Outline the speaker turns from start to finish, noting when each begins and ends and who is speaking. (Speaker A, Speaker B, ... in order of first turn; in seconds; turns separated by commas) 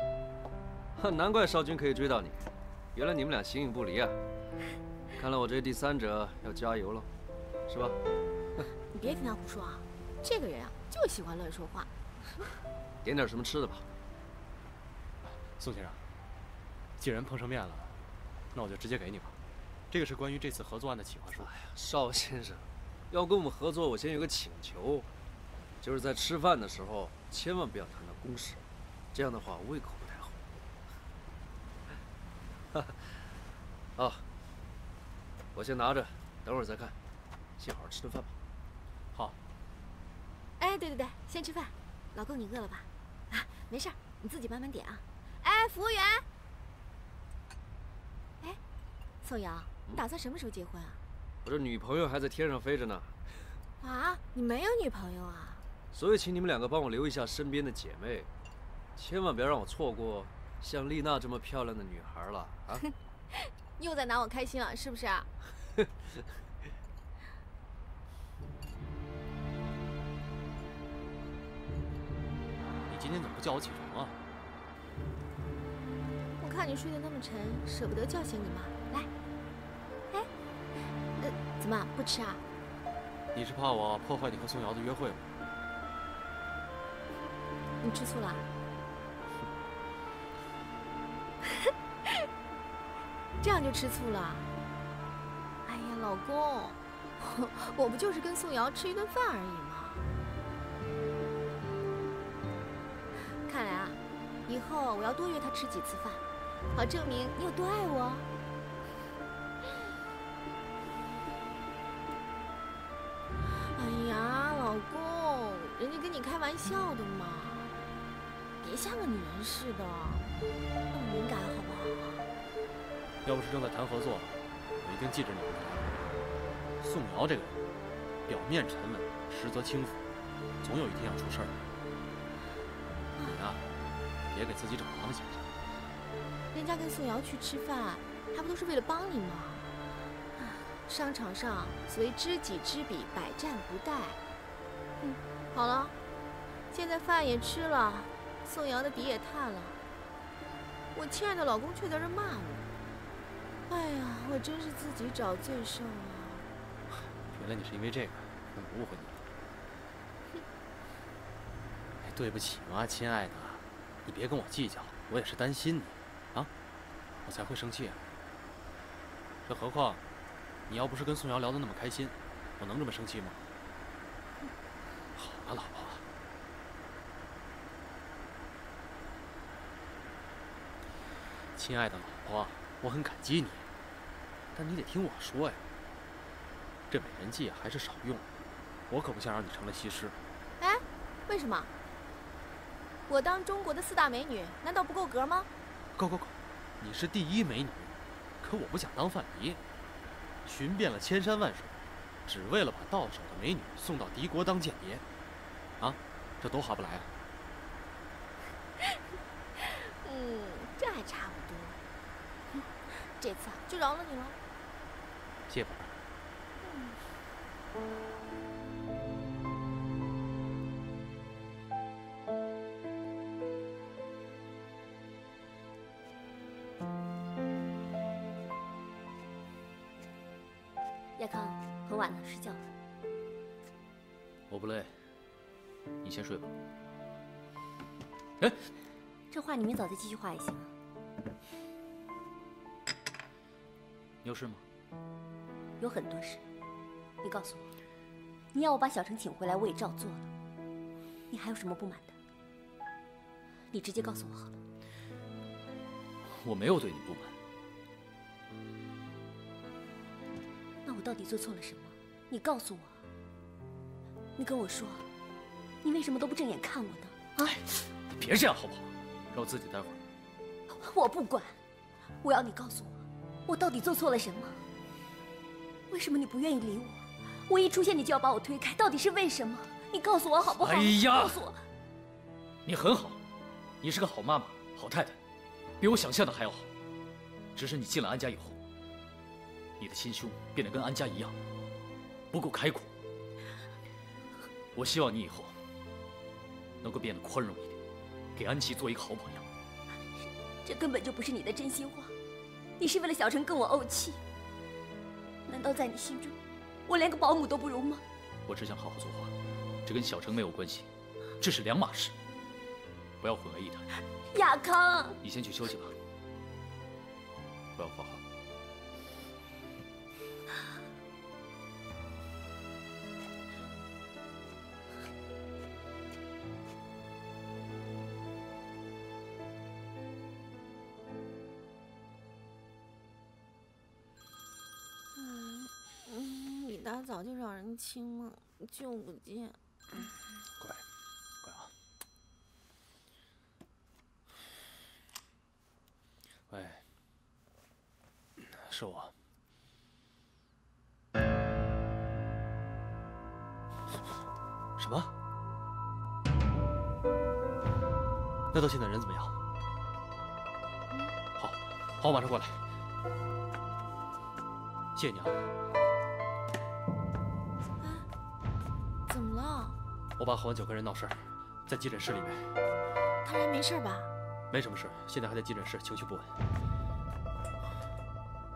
Speaker A: 0.9-4.2, Speaker A: 5.2-7.1, Speaker A: 7.7-8.0, Speaker B: 8.9-11.9, Speaker A: 13.0-13.8, Speaker C: 15.2-16.0, Speaker C: 17.0-17.9, Speaker C: 18.5-19.4, Speaker C: 19.9-21.5, Speaker A: 21.4-25.1, Speaker A: 25.8-28.6, Speaker A: 29.1-30.4, Speaker A: 34.0-34.2, Speaker A: 35.5-37.0, Speaker A: 37.6-38.3, Speaker B: 40.6-46.2, Speaker B: 49.2-51.0, Speaker A: 51.4-53.1, Speaker B: 53.8-55.6, Speaker A: 55.9-58.3, Speaker A: 59.0-62.9, Speaker B: 63.8-65.3, Speaker C: 72.9-74.2, Speaker B: 76.4-79.1, Speaker B: 81.2-82.4, Speaker C: 83.3-85.3, Speaker B: 87.8-88.5, Speaker B: 93.4-94.5, Speaker B: 95.6-100.0, Speaker B: 103.4-108.2, Speaker B: 113.6-117.8, Speaker B: 118.6-120.3, Speaker B: 120.9-122.3, Speaker C: 123.2-126.3, Speaker C: 126.8-127.7, Speaker C: 128.3-130.1, Speaker C: 130.6-131.7, Speaker C: 133.2-133.6, Speaker C: 134.3-135.5, Speaker B: 136.5-139.7, Speaker B: 140.4-144.2, Speaker B: 145.0-145.9, Speaker B: 146.7-149.8, Speaker B: 150.9-152.7, Speaker B: 153.7-156.5, Speaker C: 157.0-159.3, Speaker C: 162.0-166.5, Speaker C: 167.2-168.0, Speaker C: 169.4-170.0, Speaker C: 170.7-173.4, Speaker C: 175.1-176.1, Speaker C: 181.6-183.7, Speaker C: 184.5-185.6, Speaker C: 186.9-188.3, Speaker C: 188.9-190.2, Speaker B: 190.6-191.7, Speaker B: 193.1-195.5, Speaker C: 195.9-199.6, Speaker C: 200.4-205.0, Speaker C: 205.8-207.1, Speaker B: 210.0-211.8, Speaker B: 212.6-214.4, Speaker C: 215.5-215.9, Speaker B: 216.6-216.9, Speaker D: 231.2-232.6, Speaker E: 234.5-234.9, Speaker E: 236.0-236.5, Speaker D: 239.3-240.7, Speaker E: 244.2-244.6, Speaker D: 245.8-246.4, Speaker D: 247.2-247.7, Speaker D: 248.5-250.3, Speaker D: 251.3-252.1, Speaker D: 253.7-254.6, Speaker E: 256.2-257.4, Speaker D: 260.9-263.0, Speaker D: 264.4-265.1, Speaker D: 265.8-267.6, Speaker E: 267.4-270.0, Speaker D: 270.7-271.6, Speaker D: 272.2-274.6, Speaker D: 275.9-281.6, Speaker E: 280.6-281.4, Speaker E: 282.6-283.2, Speaker E: 283.8-285.2, Speaker E: 285.8-286.7, Speaker E: 287.6-288.6, Speaker E: 289.8-291.4, Speaker E: 292.3-292.9, Speaker E: 294.7-295.6, Speaker E: 296.8-297.8, Speaker E: 298.4-299.5, Speaker D: 300.1-302.1, Speaker D: 302.8-304.2, Speaker D: 305.5-306.4, Speaker D: 306.9-308.0, Speaker E: 308.5-309.3, Speaker E: 309.9-312.1, Speaker E: 313.2-313.9, Speaker D: 314.3-315.2, Speaker E: 315.2-315.9, Speaker E: 317.8-318.2, Speaker B: 335.1-339.6, Speaker C: 340.6-340.8, Speaker C: 341.4-341.7, Speaker C: 346.5-346.8, Speaker C: 348.4-349.1, Speaker C: 354.8-355.1, Speaker C: 358.5-359.4, Speaker C: 361.4-362.6, Speaker C: 364.9-365.4, Speaker B: 367.8-368.1, Speaker B: 369.1-369.8, Speaker C: 370.2-372.6, Speaker B: 373.2-374.1, Speaker C: 374.5-376.4